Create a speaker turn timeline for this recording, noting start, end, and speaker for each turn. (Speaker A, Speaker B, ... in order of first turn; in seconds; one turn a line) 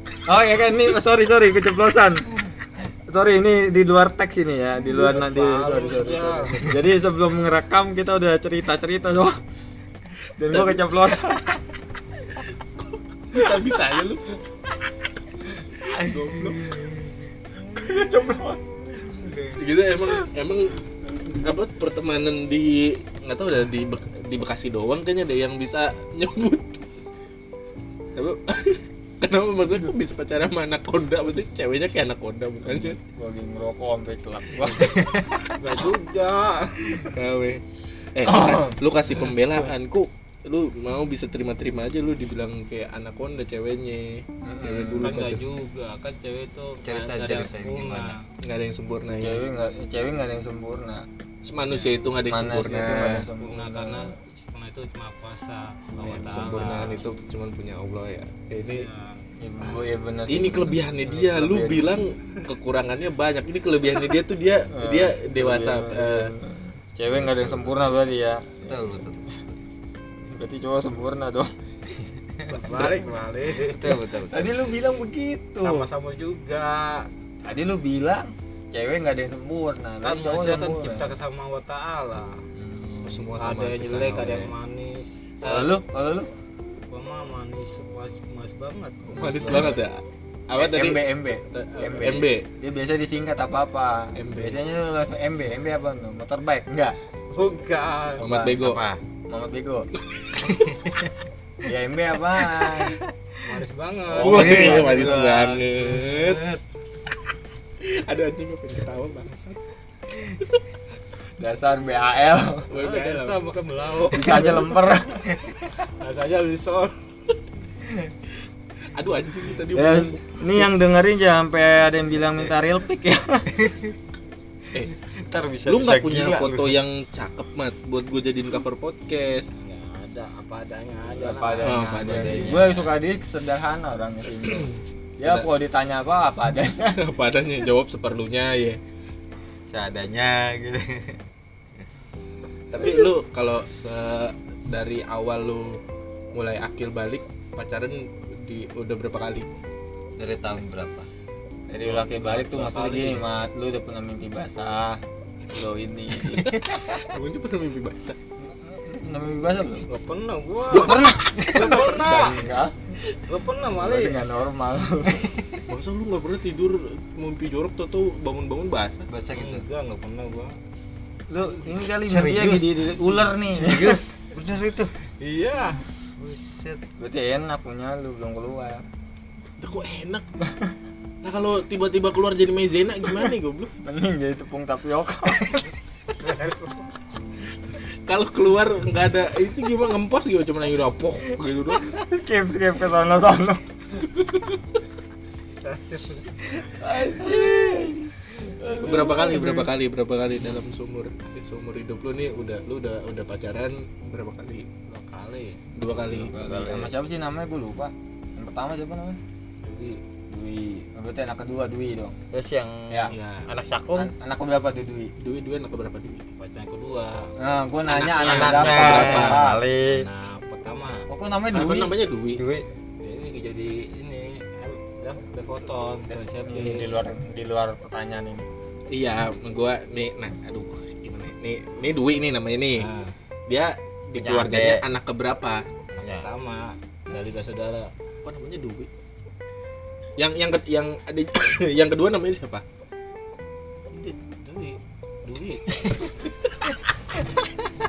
Speaker A: 0.3-2.3
Speaker A: 3.1-9.4
Speaker B: 4.9-6.7
Speaker A: 10.4-11.6
Speaker C: 10.5-10.8
Speaker C: 13.3-14.4
Speaker D: 15.9-18.2
Speaker C: 15.9-16.7
Speaker A: 17.8-18.6
Speaker D: 18.9-19.6
Speaker C: 19.6-20.8
Speaker C: 21.4-27.0
Speaker C: 28.1-33.0
Speaker A: 32.6-35.0
Speaker D: 34.8-35.4
Speaker B: 35.6-37.1
Speaker C: 37.0-37.6
Speaker C: 38.1-45.4
Speaker A: 38.3-38.6
Speaker A: 44.4-45.2
Speaker B: 45.0-48.2
Speaker D: 46.8-48.1
Speaker C: 48.4-49.5
Speaker A: 49.2-51.1
Speaker C: 51.5-53.3
Speaker A: 52.2-54.1
Speaker B: 53.4-57.0
Speaker C: 56.0-58.9
Speaker B: 58.6-59.3
Speaker A: 59.4-62.0
Speaker C: 59.6-66.3
Speaker A: 64.7-69.0
Speaker D: 67.1-67.8
Speaker D: 68.6-69.5
Speaker A: 70.2-71.5
Speaker D: 72.0-72.5
Speaker B: 72.5-74.0
Speaker D: 73.5-74.5
Speaker A: 74.3-75.9
Speaker B: 75.6-77.1
Speaker A: 77.5-81.1
Speaker B: 80.0-82.4
Speaker A: 82.6-83.2
Speaker C: 83.0-84.5
Speaker B: 83.4-85.7
Speaker A: 85.4-86.3
Speaker B: 86.9-89.8
Speaker C: 89.1-92.5
Speaker A: 89.2-89.8
Speaker A: 90.5-97.0
Speaker C: 94.2-94.6
Speaker B: 97.3-98.2
Speaker C: 98.2-98.8
Speaker A: 98.2-98.6
Speaker D: 98.6-99.0
Speaker A: 99.3-99.9
Speaker C: 100.1-100.6
Speaker D: 100.4-101.1
Speaker A: 101.6-103.0
Speaker B: 103.4-104.9
Speaker D: 104.1-106.6
Speaker C: 104.2-106.5
Speaker C: 107.8-109.6
Speaker C: 110.2-110.6
Speaker A: 111.4-112.7
Speaker C: 112.7-113.4
Speaker B: 112.8-114.6
Speaker A: 114.1-115.4
Speaker D: 114.2-114.6
Speaker B: 116.0-117.0
Speaker C: 118.9-120.3
Speaker A: 119.7-123.6
Speaker D: 123.6-123.9
Speaker D: 125.2-126.8
Speaker C: 125.7-129.6
Speaker B: 129.6-132.8
Speaker A: 131.2-137.0
Speaker D: 131.6-132.8
Speaker C: 131.6-132.5
Speaker C: 134.4-135.5
Speaker C: 137.0-138.8
Speaker D: 139.7-141.2
Speaker C: 142.7-145.8
Speaker C: 146.3-149.5
Speaker D: 150.2-151.1
Speaker A: 151.7-156.6
Speaker C: 151.8-153.2
Speaker C: 156.3-158.2
Speaker D: 156.6-157.0
Speaker A: 158.4-159.9
Speaker B: 159.9-162.4
Speaker C: 160.7-161.9
Speaker D: 160.8-161.7
Speaker A: 162.0-163.0
Speaker B: 163.2-164.2
Speaker A: 163.7-165.3
Speaker C: 165.7-169.1
Speaker D: 169.1-169.6
Speaker B: 169.3-170.6
Speaker A: 171.3-174.0
Speaker D: 172.0-174.9
Speaker B: 175.2-175.8
Speaker D: 176.2-176.8
Speaker A: 177.0-178.8
Speaker C: 179.6-180.2
Speaker C: 181.2-183.7
Speaker A: 183.8-185.7
Speaker B: 186.2-186.8
Speaker C: 188.1-192.0
Speaker A: 191.9-193.6
Speaker C: 194.1-194.6
Speaker B: 195.5-196.4
Speaker A: 196.6-199.7
Speaker C: 198.8-204.7
Speaker B: 204.9-205.6
Speaker C: 205.8-206.4
Speaker D: 206.1-206.9
Speaker A: 206.1-209.2
Speaker B: 209.6-210.0
Speaker A: 210.3-212.2
Speaker D: 212.3-214.1
Speaker C: 213.1-213.5
Speaker A: 213.9-215.1
Speaker C: 215.2-216.2
Speaker B: 216.4-217.3
Speaker A: 217.4-219.6
Speaker C: 217.9-219.5
Speaker D: 218.2-220.1
Speaker B: 219.8-221.1
Speaker A: 221.1-221.9
Speaker C: 221.5-222.4
Speaker D: 222.4-222.6
Speaker B: 223.0-227.0
Speaker A: 226.4-228.5
Speaker C: 228.9-232.9
Speaker B: 232.8-233.1
Speaker C: 233.5-235.6
Speaker D: 234.2-234.8
Speaker D: 236.0-236.3
Speaker B: 236.0-237.9
Speaker C: 238.2-238.9
Speaker C: 240.2-242.6
Speaker B: 243.9-245.7